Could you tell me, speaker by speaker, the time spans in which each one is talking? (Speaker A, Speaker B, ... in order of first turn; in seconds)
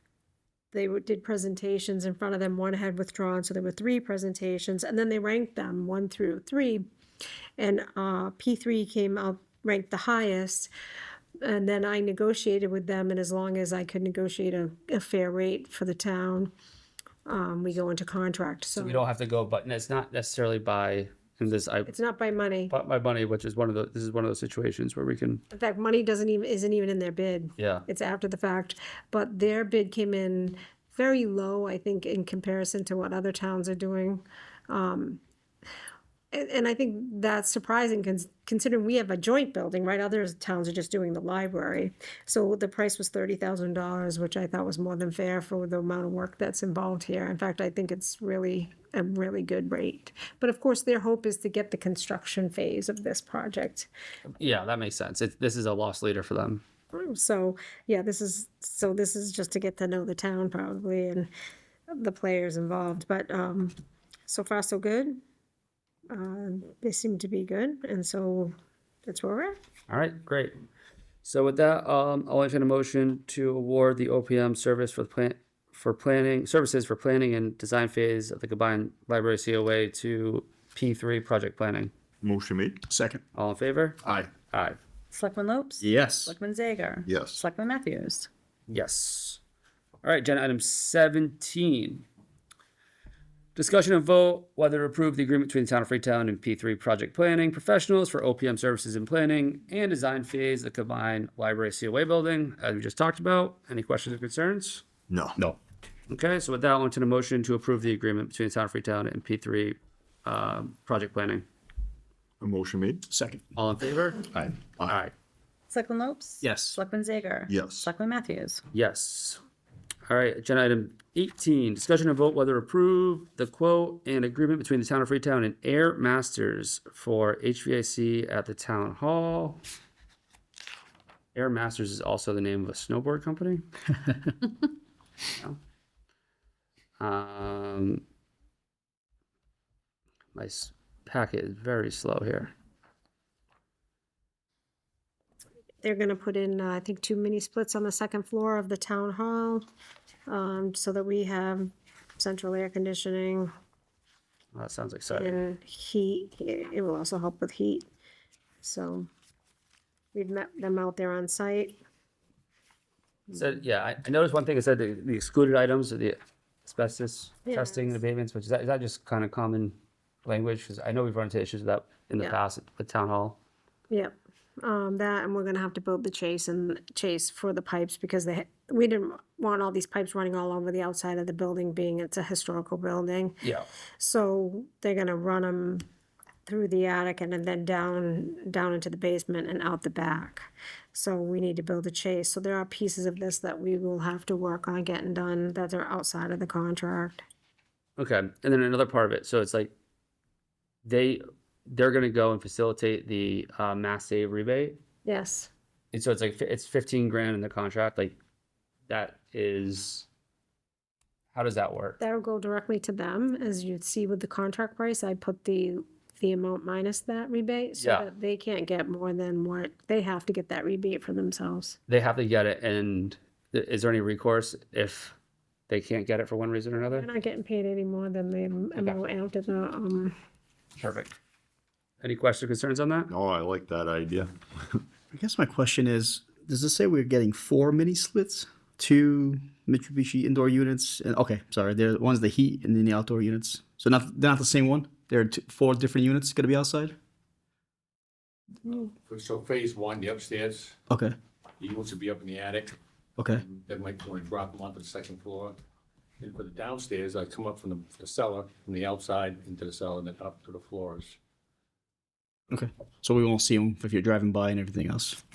Speaker A: 0.7-6.8, 7.6-10.7, 11.4-16.5, 17.3-19.0, 21.9-22.7, 25.5-35.2, 36.3-53.9, 56.9-61.3, 61.9-63.7, 64.3-65.2, 66.1-68.5, 69.1-69.6, 145.8-149.6, 150.3-153.5, 155.1-157.9, 158.6-159.1, 160.1-161.8, 167.5-168.0, 173.9-183.4, 184.0-185.8, 186.5-197.2, 205.1-205.5, 212.0-221.8, 226.9-230.1
Speaker B: 18.8-21.9, 22.7-25.4, 27.6-27.9, 54.4-56.6, 69.9-70.6, 71.2-81.9, 83.3-84.8, 88.7-89.4, 90.0-92.0, 93.6-104.8, 106.1-111.5, 113.5-114.3, 114.9-115.1, 118.7-119.4, 120.1-129.6, 131.3-133.6, 137.0-138.0, 140.3-142.5, 154.5-155.4, 163.3-173.4, 183.4-183.7, 198.0-199.7, 200.8-204.8, 205.9-208.2, 208.9-210.1, 211.3-212.0, 217.8-218.1, 221.9-225.2, 225.7-227.1, 230.8-231.2, 232.0-233.1
Speaker C: 82.2-82.8, 87.1-87.4, 105.1-105.4, 112.4-113.0, 114.3-115.0, 117.5-117.9, 233.1-234.8
Speaker D: 82.9-83.2, 85.8-86.3, 113.1-113.4, 116.4-116.8, 235.1-246.9, 250.9-251.2, 253.2-253.4, 262.5-265.2
Speaker E: 85.1-88.3, 115.7-118.6
Speaker F: 248.7-250.8, 251.6-252.8, 253.4-255.6, 256.2-261.2